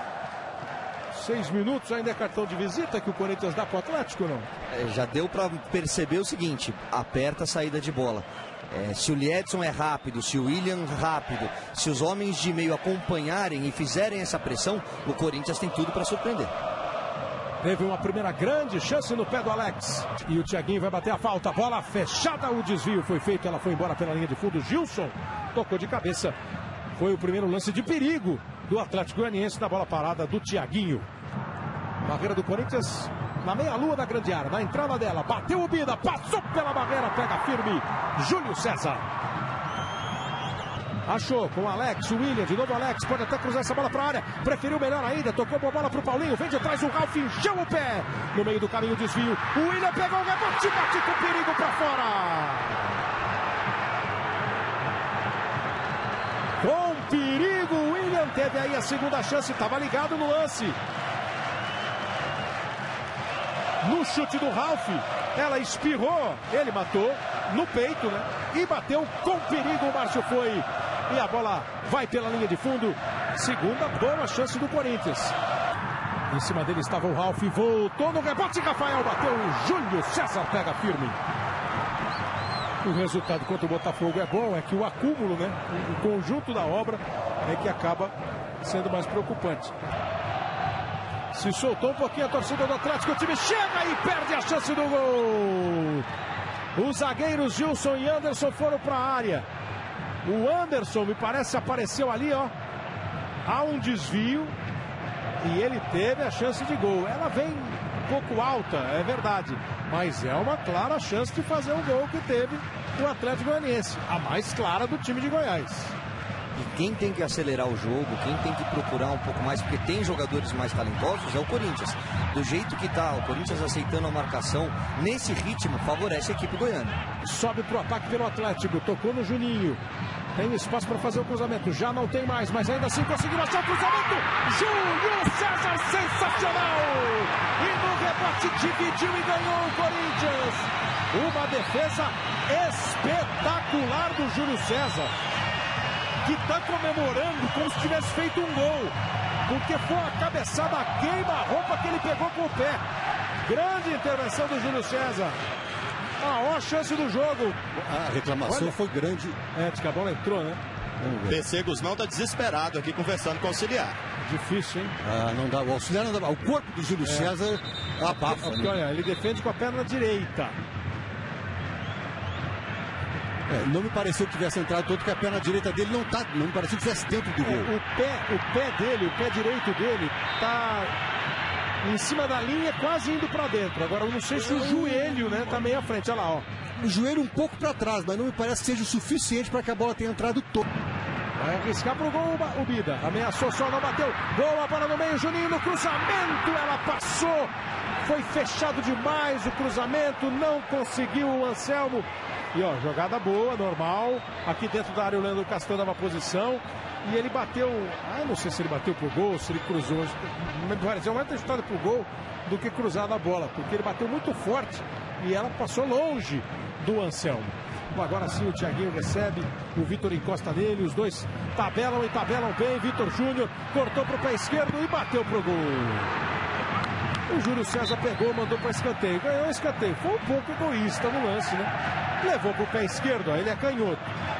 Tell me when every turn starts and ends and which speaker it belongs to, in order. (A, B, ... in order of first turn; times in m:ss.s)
0:01.1-0:04.5 A
0:04.7-0:16.5 B
0:17.6-0:26.4 A
0:27.0-0:31.1 A
0:32.0-0:39.1 A
0:41.1-0:53.0 A
0:56.6-1:00.8 A
1:03.8-1:15.4 A
1:16.3-1:21.2 A
1:22.8-1:29.8 A
1:31.3-1:36.1 A
1:36.8-1:39.5 A
1:40.2-1:42.5 A
1:43.4-1:44.6 A
1:45.4-1:56.0 A
1:56.6-2:07.0 B
2:07.2-2:09.8 A
2:10.4-2:25.1 A
2:26.2-2:28.9 A
2:29.4-2:32.8 A
2:33.4-2:35.4 A
2:36.2-2:37.6 A
2:37.7-2:39.4 C
2:38.4-2:38.8 A
2:39.5-2:40.6 A
2:41.0-2:41.5 C
2:41.3-2:44.0 D
2:44.2-2:45.0 A
2:45.0-2:48.8 C
2:47.0-2:47.3 A
2:48.1-2:50.6 A
2:53.5-2:57.7 C
2:57.4-3:00.9 A
3:01.8-3:06.5 A
3:06.8-3:10.7 C
3:11.4-3:46.1 A
3:47.3-3:54.0 A